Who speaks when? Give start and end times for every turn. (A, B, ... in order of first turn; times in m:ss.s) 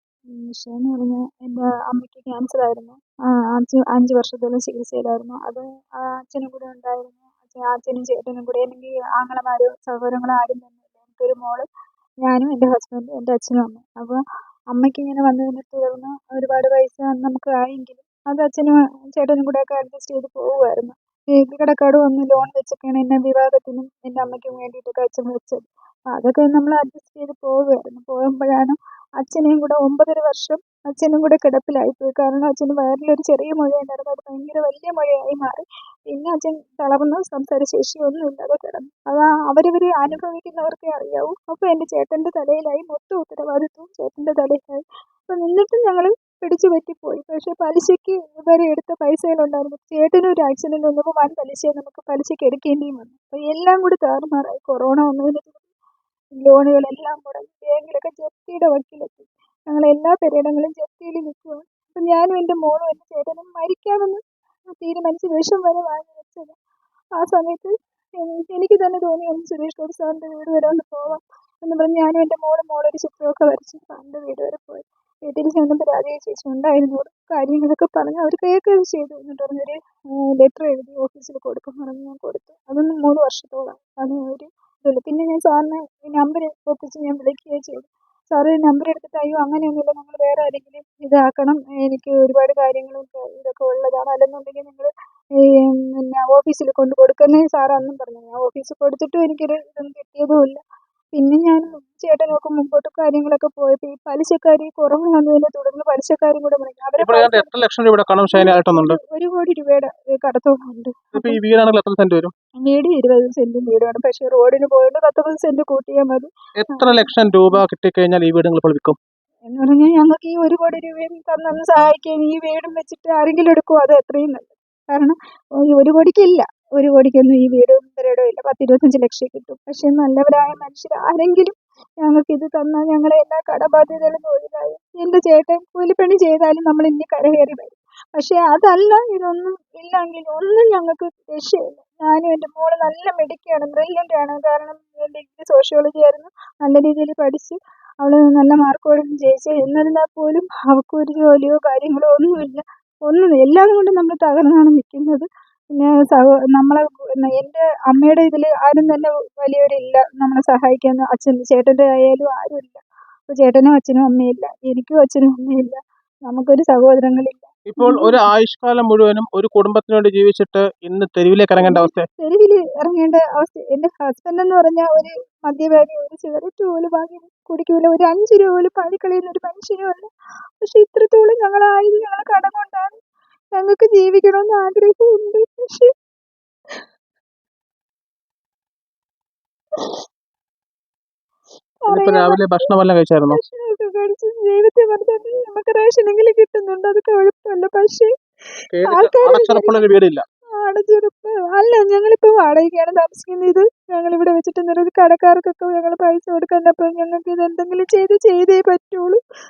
0:00.3-0:11.7 A
0:12.2-0:14.2 A
0:14.7-0:55.6 A
0:56.4-1:04.2 A
1:04.8-1:06.6 A
1:07.2-1:19.8 A
1:20.3-1:34.9 A
1:35.4-1:40.6 A
1:41.1-1:47.6 A
1:47.0-1:49.0 B
1:48.3-1:51.4 A
1:51.1-1:52.3 B
1:52.6-1:57.6 A
1:56.6-1:59.0 B
1:59.5-2:05.2 A
2:05.7-2:48.2 A
2:47.7-2:52.1 B
2:51.6-3:00.1 A
3:00.6-3:03.0 A
3:03.5-3:05.9 A
3:09.8-3:10.0 A
3:11.8-3:12.4 A
3:11.9-3:13.4 B
3:13.3-3:18.1 A
3:18.7-3:20.2 B
3:18.9-3:19.8 A
3:20.6-3:29.2 A